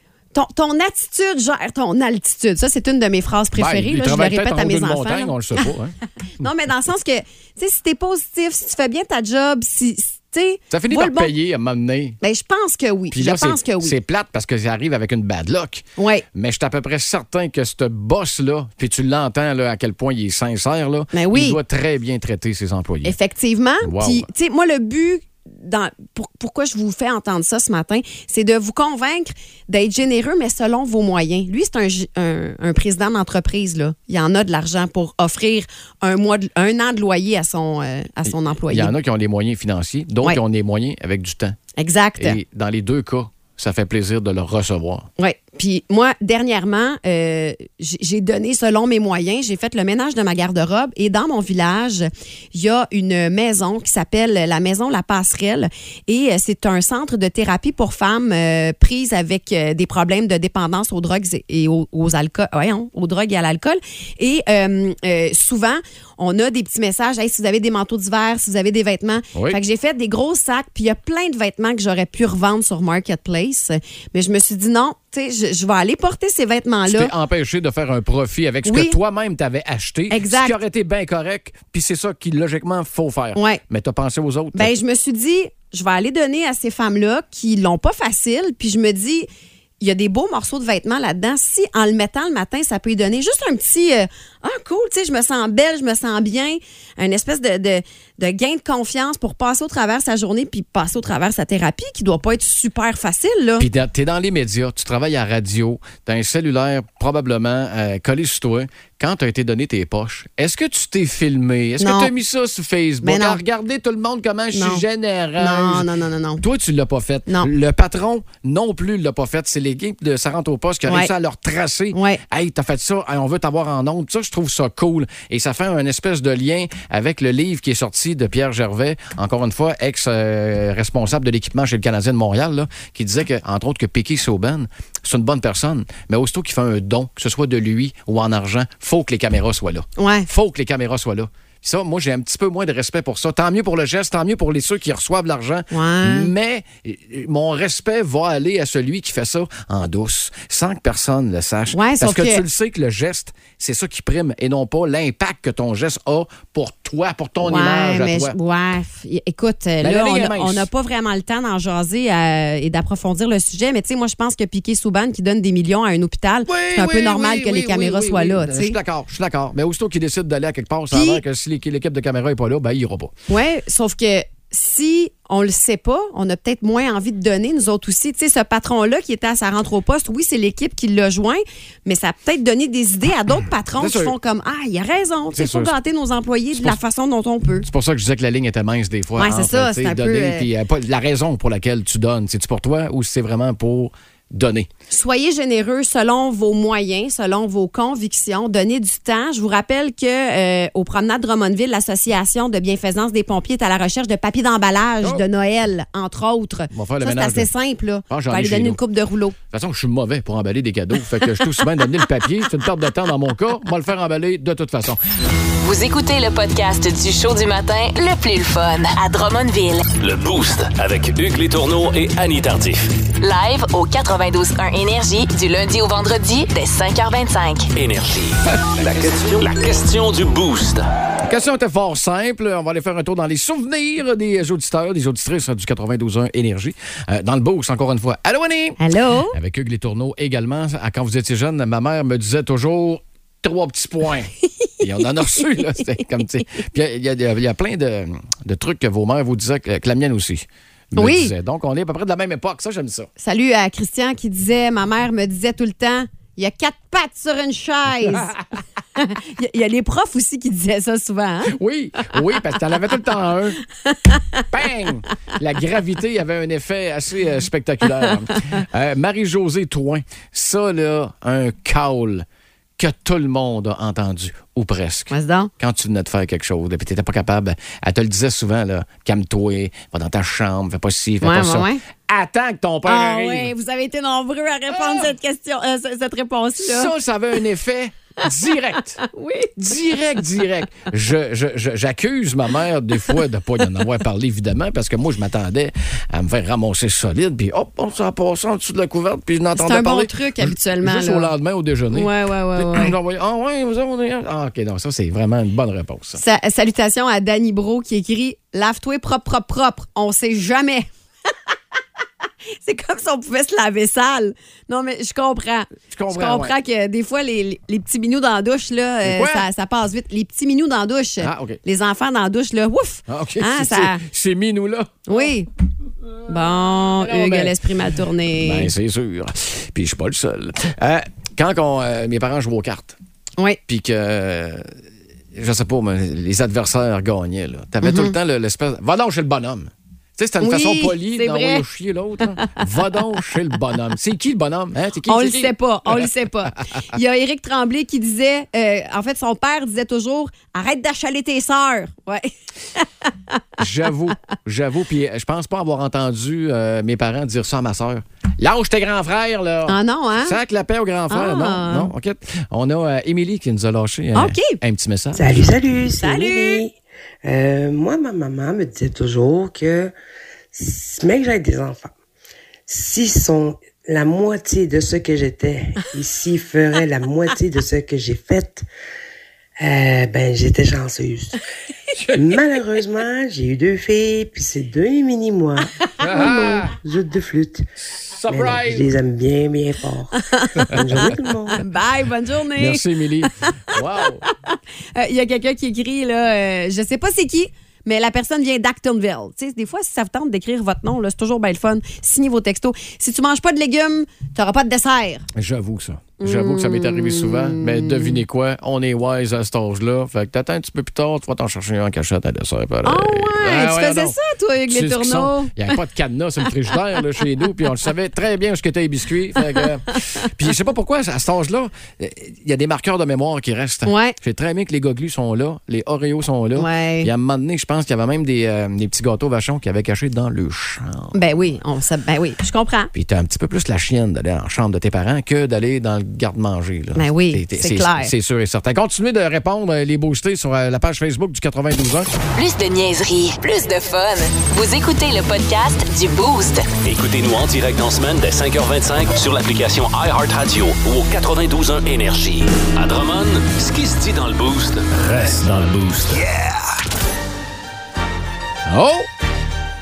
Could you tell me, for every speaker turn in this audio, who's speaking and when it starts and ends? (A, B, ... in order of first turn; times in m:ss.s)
0:00.3-0:05.7 A
0:03.6-0:05.9 B
0:06.4-0:11.3 A
0:10.7-0:12.2 B
0:12.2-0:14.0 A
0:13.1-0:23.2 B
0:16.0-0:16.2 A
0:21.1-0:21.6 A
0:23.0-0:38.9 A
0:23.8-0:24.3 B
0:38.2-0:41.6 B
0:41.8-0:42.4 A
0:42.2-0:45.1 B
0:45.2-1:17.1 A
1:09.3-1:09.6 B
1:16.9-1:24.7 B
1:18.6-1:19.0 A
1:20.1-1:20.6 A
1:23.3-1:23.6 A
1:24.5-1:29.3 A
1:29.8-1:43.7 A
1:43.6-1:55.9 B
1:51.8-1:52.1 A
1:53.0-1:53.4 A
1:54.5-1:54.8 A
1:55.4-1:56.4 A
1:56.4-2:38.4 B
2:01.9-2:02.2 A
2:20.0-2:20.3 A
2:25.7-2:26.3 A
2:31.7-2:32.4 A
2:37.4-2:48.8 A
2:39.8-2:40.7 B
2:46.4-2:53.1 B
2:50.9-2:51.2 A
2:53.3-3:07.7 A
3:03.8-3:04.2 B
3:05.3-3:05.7 B
3:07.6-3:14.7 B
3:09.2-3:10.5 A
3:14.9-3:29.4 A
3:26.7-3:27.5 B
3:28.1-3:28.8 B
3:29.5-3:35.0 B
3:35.6-3:39.9 C
3:40.0-3:42.9 D
3:43.2-3:47.7 C
3:47.8-3:50.9 D
3:51.2-3:58.8 B
3:58.8-3:59.4 A
3:59.3-4:13.1 B
4:05.4-4:05.8 A
4:11.0-4:11.3 A
4:13.2-4:18.3 A
4:18.0-4:18.4 B
4:19.0-4:21.6 A
4:21.5-4:23.6 B
4:23.9-4:24.4 A
4:24.5-4:32.2 B
4:32.8-4:43.5 B
4:35.1-4:35.5 A
4:41.2-4:41.8 A
4:42.9-4:46.9 A
4:44.7-4:45.1 B
4:46.6-4:49.0 B
4:49.0-4:49.8 A
4:49.6-5:06.2 B
4:59.5-5:01.3 A
5:01.9-5:03.0 A
5:06.2-5:10.9 A
5:12.5-5:24.0 A
5:15.9-5:16.5 B
5:19.0-5:19.5 B
5:21.2-5:21.6 B
5:23.1-5:25.3 B
5:25.0-5:25.5 A
5:26.3-5:28.7 A
5:27.0-5:27.6 B
5:28.3-5:33.0 B
5:33.7-5:34.7 B
5:35.3-5:46.1 B
5:37.8-5:38.1 A
5:40.4-5:41.6 A
5:42.4-5:42.6 A
5:45.0-5:53.4 A
5:53.6-6:05.5 B
5:59.7-6:00.4 A
6:01.1-6:01.9 A
6:04.1-6:04.6 A
6:05.2-6:09.9 E
6:06.0-6:06.6 A
6:10.5-6:11.9 E
6:12.7-6:18.6 E
6:19.6-6:21.4 E
6:22.0-6:22.4 B
6:22.1-6:27.7 E
6:26.0-6:26.7 B
6:27.8-6:28.9 B
6:28.3-6:31.6 E
6:30.2-6:33.8 A
6:32.6-6:34.2 B
6:34.4-6:45.3 A
6:45.4-6:54.2 B
6:46.2-6:48.2 A
6:52.8-6:55.8 A
6:54.7-7:11.2 B
6:59.5-7:00.3 A
7:03.9-7:04.2 A
7:06.6-7:07.1 A
7:11.1-7:12.9 A
7:12.9-7:22.1 B
7:17.0-7:18.1 A
7:22.4-7:26.7 C
7:26.8-7:34.9 D
7:34.9-7:36.3 B
7:38.6-7:39.1 B